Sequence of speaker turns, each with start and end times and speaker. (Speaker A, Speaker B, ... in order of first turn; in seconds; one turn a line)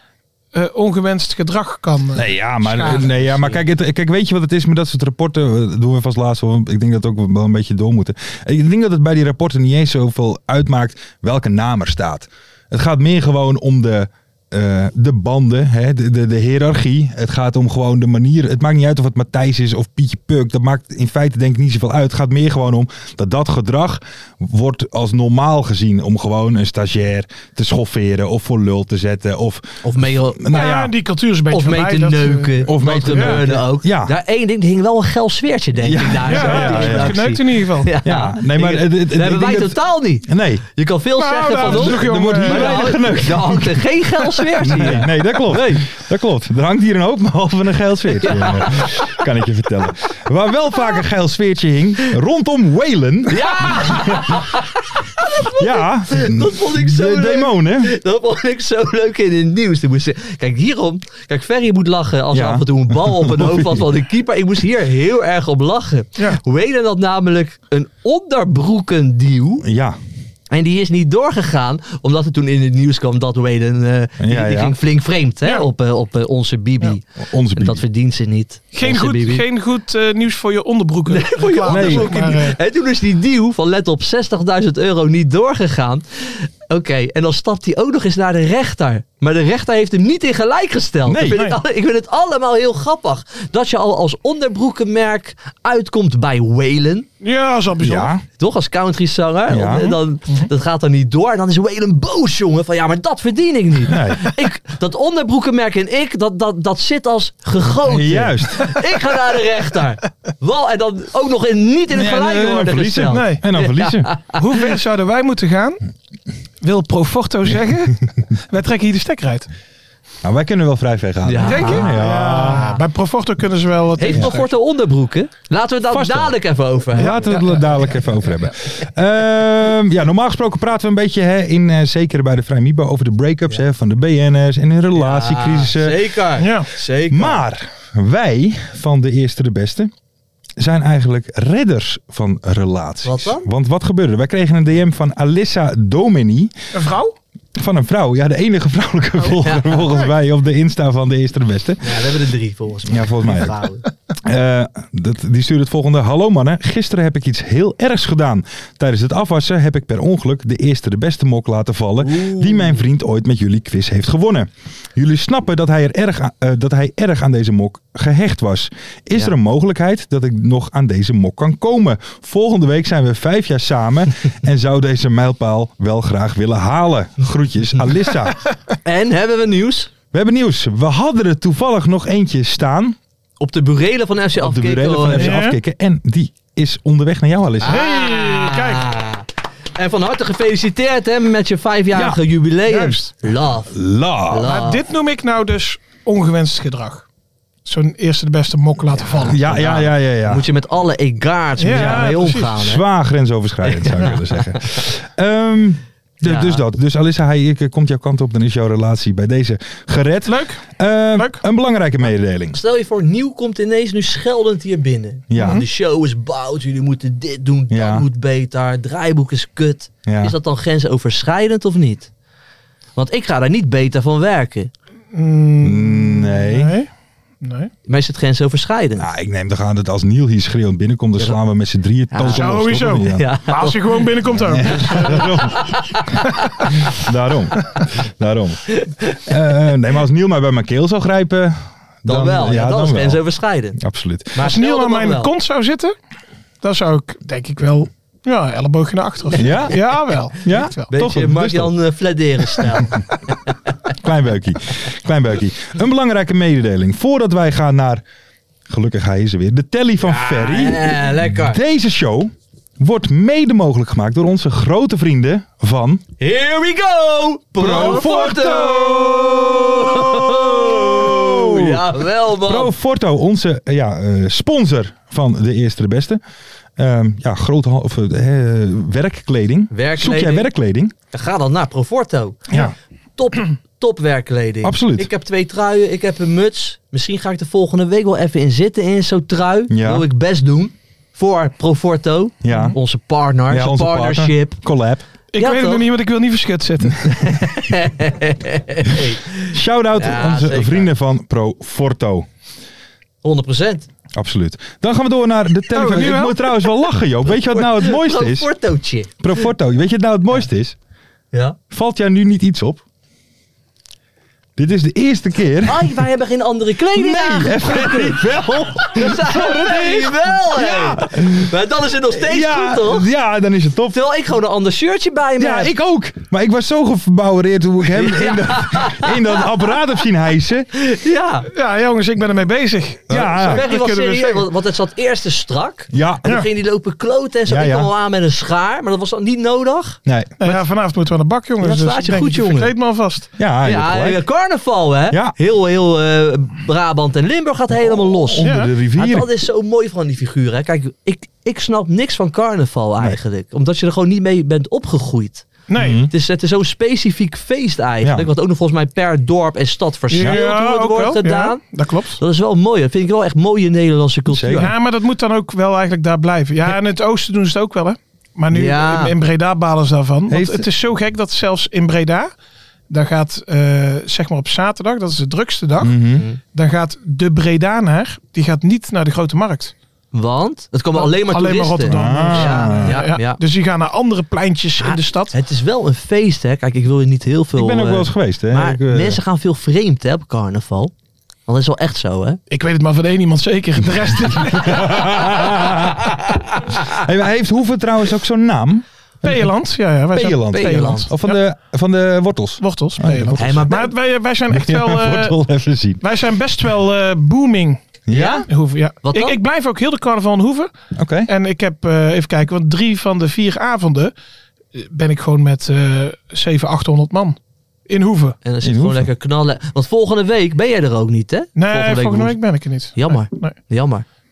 Speaker A: 0.5-3.4
Speaker B: 2.1-30.9
Speaker C: 3.3-3.6
Speaker C: 29.8-30.4
Speaker A: 30.5-32.5
Speaker C: 31.5-45.9
Speaker B: 32.6-34.1
Speaker A: 33.0-33.4
Speaker B: 35.8-37.4
Speaker A: 36.2-37.9
Speaker B: 38.0-40.6
Speaker A: 41.2-42.9
Speaker B: 41.6-54.4
Speaker C: 48.2-49.2
Speaker C: 53.3-69.6
Speaker B: 55.6-57.9
Speaker B: 62.3-63.9
Speaker B: 69.6-70.0
Speaker C: 70.5-77.0
Speaker B: 74.2-74.8
Speaker B: 77.2-77.8
Speaker C: 77.5-79.4
Speaker A: 78.7-82.6
Speaker C: 81.1-97.1
Speaker B: 81.7-82.1
Speaker B: 91.0-91.4
Speaker A: 91.3-91.6
Speaker A: 97.2-98.1
Speaker B: 97.8-98.2
Speaker C: 98.4-114.4
Speaker B: 99.5-100.0
Speaker B: 103.9-104.3
Speaker B: 107.8-108.8
Speaker B: 111.9-114.1
Speaker A: 113.1-113.4
Speaker A: 114.4-115.8
Speaker A: 116.6-119.5
Speaker B: 120.2-122.8
Speaker C: 121.2-122.0
Speaker A: 121.4-124.5
Speaker C: 124.0-127.3
Speaker B: 125.9-126.4
Speaker B: 126.9-136.0
Speaker A: 127.0-127.7
Speaker C: 134.9-137.4
Speaker A: 136.4-136.7
Speaker B: 137.1-139.9
Speaker B: 140.6-146.5
Speaker C: 143.0-143.4
Speaker A: 146.7-147.1
Speaker B: 147.6-152.1
Speaker C: 149.2-149.9
Speaker C: 151.8-153.8
Speaker B: 152.8-153.6
Speaker B: 154.2-178.4
Speaker C: 162.0-162.8
Speaker C: 178.8-179.9
Speaker B: 180.1-183.0
Speaker C: 183.4-185.4
Speaker B: 184.4-187.8
Speaker A: 185.2-185.6
Speaker C: 187.6-193.7
Speaker A: 187.6-188.9
Speaker B: 191.9-192.2
Speaker A: 192.7-193.1
Speaker B: 193.7-194.6
Speaker C: 194.3-194.8
Speaker A: 194.4-197.0
Speaker A: 197.6-199.4
Speaker C: 198.9-202.8
Speaker B: 199.2-200.5
Speaker A: 201.6-202.6
Speaker B: 201.7-212.6
Speaker C: 203.7-204.8
Speaker C: 206.2-206.6
Speaker A: 210.2-210.6
Speaker A: 211.2-211.4
Speaker C: 212.5-222.1
Speaker B: 215.3-215.7
Speaker A: 215.3-215.7
Speaker B: 217.7-218.1
Speaker B: 220.1-220.3
Speaker C: 222.9-224.7
Speaker A: 225.1-226.9
Speaker B: 225.6-226.7
Speaker A: 227.4-227.7
Speaker C: 227.8-229.1
Speaker B: 229.0-233.3
Speaker C: 232.1-232.6
Speaker A: 232.3-235.5
Speaker C: 233.1-236.7
Speaker B: 234.3-236.2
Speaker A: 236.4-236.7
Speaker B: 236.9-243.2
Speaker C: 238.7-239.2
Speaker C: 242.1-243.8
Speaker B: 243.8-244.4
Speaker C: 244.3-245.3
Speaker A: 244.4-245.9
Speaker A: 246.6-250.9
Speaker B: 249.3-249.8
Speaker B: 250.3-251.7
Speaker C: 250.9-253.0
Speaker B: 253.9-258.0
Speaker B: 258.7-266.0
Speaker C: 260.0-261.6
Speaker C: 266.2-272.7
Speaker B: 267.6-271.9
Speaker B: 272.4-276.2
Speaker B: 276.8-280.9
Speaker C: 279.7-280.5
Speaker C: 281.1-282.6
Speaker B: 282.5-282.7
Speaker C: 283.2-294.6
Speaker B: 284.6-285.1
Speaker B: 289.7-290.0
Speaker B: 292.4-292.8
Speaker B: 293.5-295.1
Speaker A: 295.3-297.2
Speaker C: 295.4-295.9
Speaker C: 297.0-300.9
Speaker B: 299.5-302.3
Speaker C: 303.2-303.9
Speaker B: 304.1-308.5
Speaker A: 305.7-306.4
Speaker C: 307.5-309.1
Speaker B: 309.2-310.8
Speaker C: 311.3-311.6
Speaker B: 311.7-312.8
Speaker B: 314.6-316.0
Speaker C: 315.6-323.1
Speaker B: 316.9-321.5
Speaker B: 322.1-324.0
Speaker C: 323.9-325.7
Speaker B: 325.4-330.7
Speaker C: 327.9-329.4
Speaker C: 330.7-331.5
Speaker A: 331.5-334.4
Speaker B: 333.1-333.6
Speaker C: 333.1-340.6
Speaker B: 335.9-336.3
Speaker B: 337.5-337.9
Speaker B: 340.0-340.5
Speaker A: 340.4-343.3
Speaker C: 341.6-342.7
Speaker B: 343.4-344.2
Speaker C: 343.6-355.5
Speaker B: 345.1-345.3
Speaker B: 347.8-349.3
Speaker A: 348.4-348.7
Speaker A: 355.7-356.0
Speaker B: 355.7-356.1
Speaker C: 356.1-361.6
Speaker B: 358.0-358.3
Speaker A: 360.1-362.2
Speaker C: 362.1-364.7
Speaker B: 364.3-364.7
Speaker A: 364.6-372.3
Speaker C: 368.5-369.1
Speaker B: 370.3-370.7
Speaker A: 372.9-375.9
Speaker B: 375.8-376.2
Speaker A: 376.5-379.7
Speaker C: 380.1-383.4
Speaker A: 380.9-385.4
Speaker B: 381.9-383.0
Speaker C: 384.8-390.9
Speaker B: 387.6-389.2
Speaker C: 391.5-392.4
Speaker A: 392.5-395.2
Speaker B: 394.4-396.2
Speaker B: 396.7-399.5
Speaker A: 399.2-401.4
Speaker B: 400.1-403.7
Speaker C: 400.5-401.1
Speaker A: 402.6-405.4
Speaker C: 403.4-403.9
Speaker B: 404.5-406.0
Speaker A: 406.0-407.8
Speaker B: 408.1-408.5
Speaker C: 408.1-408.4
Speaker A: 408.4-410.7
Speaker C: 409.0-409.4
Speaker B: 410.9-411.3
Speaker A: 411.3-414.1
Speaker A: 414.7-418.4
Speaker C: 418.4-422.4
Speaker B: 418.6-419.1
Speaker A: 421.5-423.6
Speaker C: 422.9-424.0